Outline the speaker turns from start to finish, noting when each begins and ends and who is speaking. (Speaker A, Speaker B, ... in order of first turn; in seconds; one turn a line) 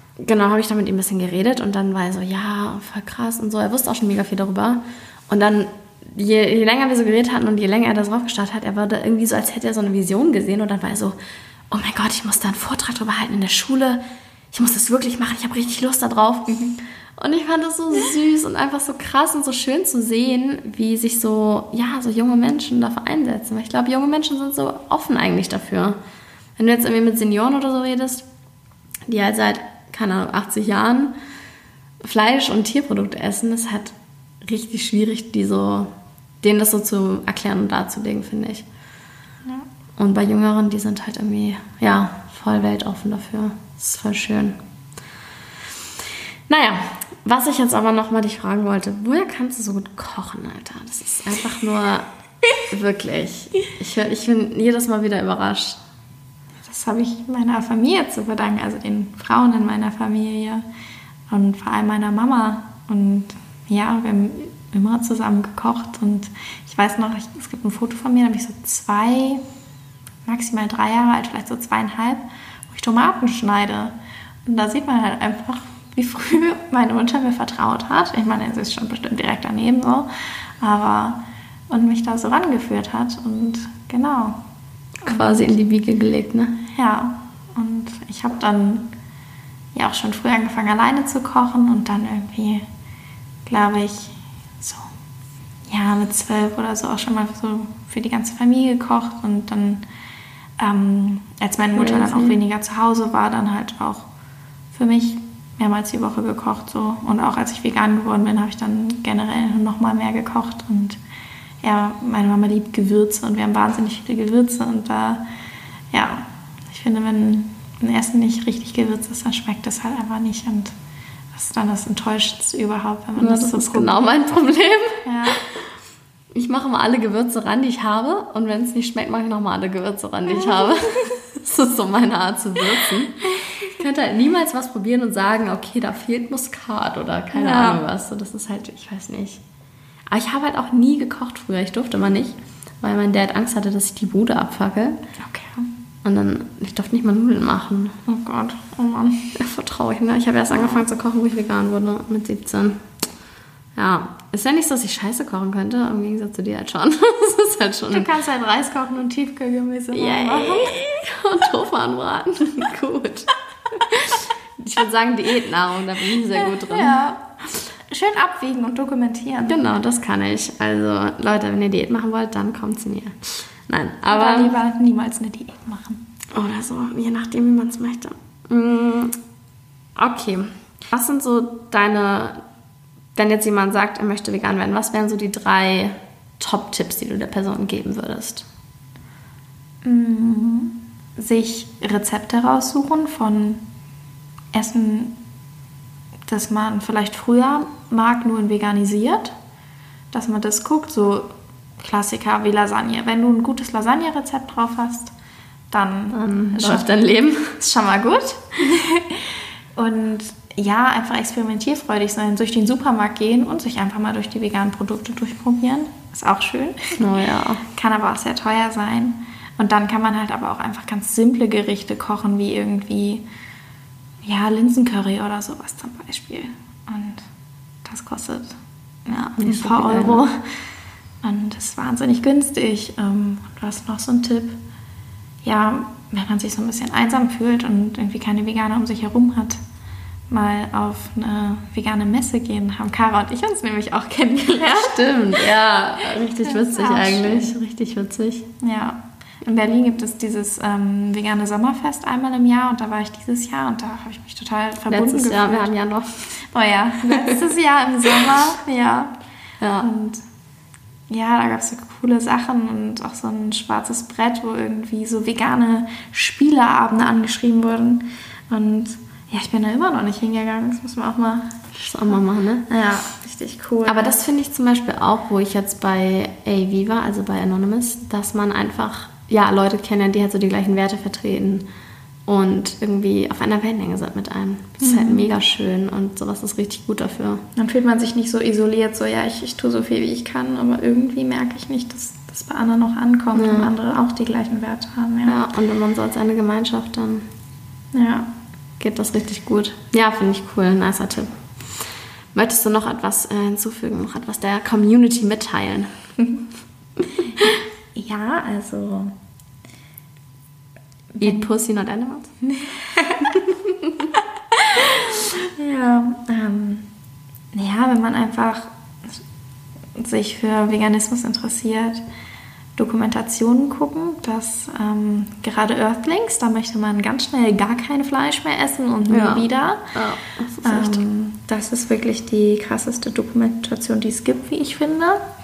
Speaker A: 0.2-11.2
Speaker A: 11.7-14.0
Speaker A: 14.5-26.0
Speaker A: 26.6-28.3
Speaker A: 29.1-31.1
Speaker A: 32.0-38.6
Speaker A: 40.0-44.6
Speaker A: 46.5-52.0
Speaker A: 52.6-55.8
Speaker B: 56.6-60.6
Speaker B: 61.3-69.4
Speaker B: 70.2-73.9
Speaker B: 74.5-80.1
Speaker B: 80.6-84.4
Speaker A: 85.0-86.5
Speaker B: 85.0-85.5
Speaker B: 86.7-88.9
Speaker B: 89.7-92.6
Speaker B: 93.5-94.9
Speaker B: 95.7-99.8
Speaker B: 100.6-104.0
Speaker A: 101.8-102.4
Speaker B: 104.7-111.0
Speaker B: 111.6-115.2
Speaker B: 115.9-120.7
Speaker B: 121.3-124.1
Speaker A: 123.2-125.4
Speaker B: 125.0-125.4
Speaker A: 126.3-139.4
Speaker B: 130.4-131.1
Speaker B: 137.3-137.8
Speaker A: 140.1-145.0
Speaker B: 145.2-145.7
Speaker A: 146.0-148.0
Speaker B: 148.1-149.3
Speaker A: 149.3-152.8
Speaker B: 150.5-150.8
Speaker A: 153.8-158.1
Speaker B: 157.9-160.7
Speaker A: 159.9-167.0
Speaker B: 166.4-169.6
Speaker A: 169.4-174.6
Speaker B: 174.1-176.0
Speaker A: 176.3-179.2
Speaker A: 180.0-182.4
Speaker A: 183.1-188.4
Speaker B: 189.8-193.6
Speaker B: 194.5-195.2
Speaker B: 196.3-199.3
Speaker B: 200.1-205.1
Speaker B: 205.7-206.9
Speaker A: 206.1-207.6
Speaker B: 207.6-217.0
Speaker A: 217.0-217.6
Speaker B: 217.6-223.2
Speaker B: 224.2-227.3
Speaker B: 227.8-230.6
Speaker A: 229.4-230.2
Speaker B: 231.2-234.6
Speaker B: 235.4-239.6
Speaker B: 240.3-245.5
Speaker A: 244.4-248.5
Speaker B: 246.4-247.5
Speaker B: 248.6-255.7
Speaker A: 254.9-256.3
Speaker B: 256.5-259.1
Speaker A: 257.1-257.5
Speaker A: 259.6-259.9
Speaker B: 259.8-260.2
Speaker B: 261.1-271.6
Speaker A: 271.7-272.7
Speaker B: 272.7-274.2
Speaker A: 273.9-281.6
Speaker A: 282.2-287.4
Speaker B: 284.8-285.2
Speaker B: 287.6-295.4
Speaker A: 293.3-293.7
Speaker A: 295.2-297.3
Speaker B: 297.9-298.3
Speaker A: 298.8-301.3
Speaker A: 302.3-306.1
Speaker A: 307.0-307.5
Speaker B: 307.4-309.1
Speaker B: 311.1-311.5
Speaker A: 311.2-312.3
Speaker B: 312.4-313.4
Speaker A: 313.5-314.1
Speaker B: 314.5-316.9
Speaker B: 317.5-318.7
Speaker B: 320.0-322.0
Speaker B: 322.8-329.9
Speaker A: 329.1-331.1
Speaker B: 330.6-335.2